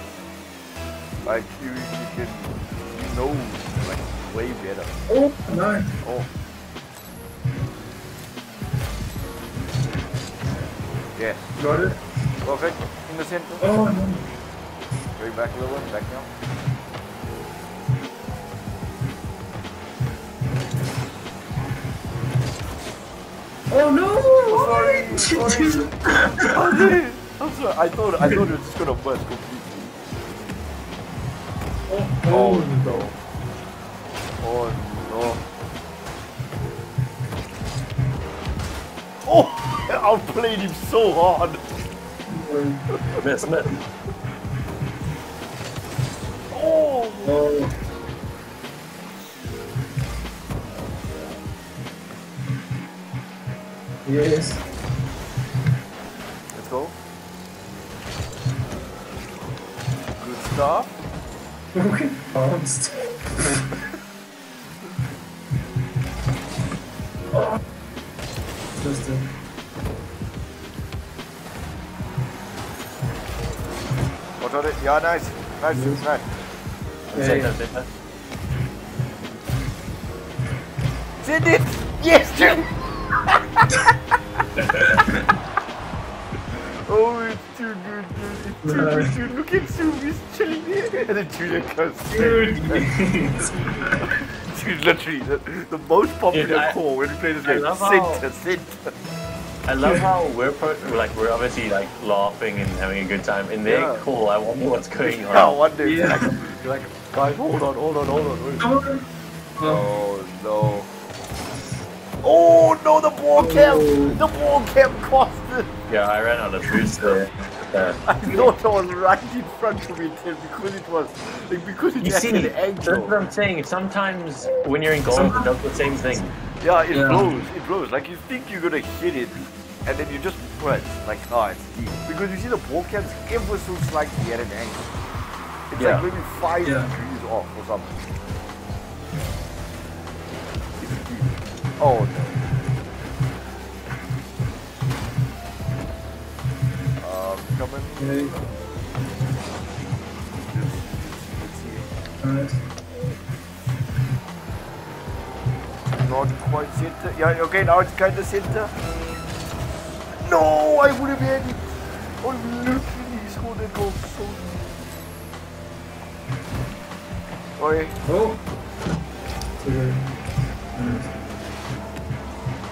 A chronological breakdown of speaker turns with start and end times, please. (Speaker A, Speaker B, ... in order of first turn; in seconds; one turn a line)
Speaker A: 1.2-5.0
Speaker B: 5.1-5.9
Speaker A: 6.0-6.3
Speaker A: 11.2-11.5
Speaker B: 11.6-12.0
Speaker A: 12.4-13.7
Speaker B: 13.6-14.2
Speaker A: 15.2-16.3
Speaker B: 23.7-26.5
Speaker A: 24.5-29.9
Speaker B: 31.9-33.1
Speaker A: 32.3-33.1
Speaker A: 34.4-35.4
Speaker A: 39.2-41.6
Speaker B: 42.3-42.8
Speaker C: 43.2-43.8
Speaker A: 46.5-47.4
Speaker B: 47.2-47.7
Speaker B: 54.0-54.6
Speaker A: 56.5-57.0
Speaker A: 60.2-60.9
Speaker B: 61.8-63.6
Speaker B: 68.8-69.2
Speaker A: 74.4-76.3
Speaker B: 75.7-76.0
Speaker C: 77.1-77.9
Speaker B: 77.1-77.5
Speaker A: 81.2-82.7
Speaker A: 86.8-98.9
Speaker B: 88.6-89.2
Speaker B: 92.1-94.0
Speaker C: 96.3-96.8
Speaker C: 97.4-98.2
Speaker C: 99.7-105.6
Speaker A: 100.8-101.1
Speaker A: 103.7-104.0
Speaker A: 105.0-108.7
Speaker B: 105.8-106.4
Speaker B: 108.6-109.1
Speaker B: 109.6-109.9
Speaker A: 109.6-110.9
Speaker A: 112.2-115.7
Speaker B: 113.4-114.2
Speaker C: 115.9-118.0
Speaker A: 118.0-123.2
Speaker B: 118.2-118.5
Speaker C: 122.0-126.3
Speaker B: 125.1-126.2
Speaker A: 126.6-134.9
Speaker B: 126.9-127.3
Speaker A: 135.7-138.0
Speaker C: 135.8-136.1
Speaker B: 136.6-136.9
Speaker A: 140.8-142.4
Speaker A: 147.0-148.4
Speaker B: 148.0-148.3
Speaker A: 150.4-151.9
Speaker B: 152.2-152.6
Speaker A: 155.9-158.7
Speaker A: 160.2-164.7
Speaker A: 167.6-168.0
Speaker B: 168.1-168.4
Speaker B: 169.6-170.1
Speaker B: 170.8-171.1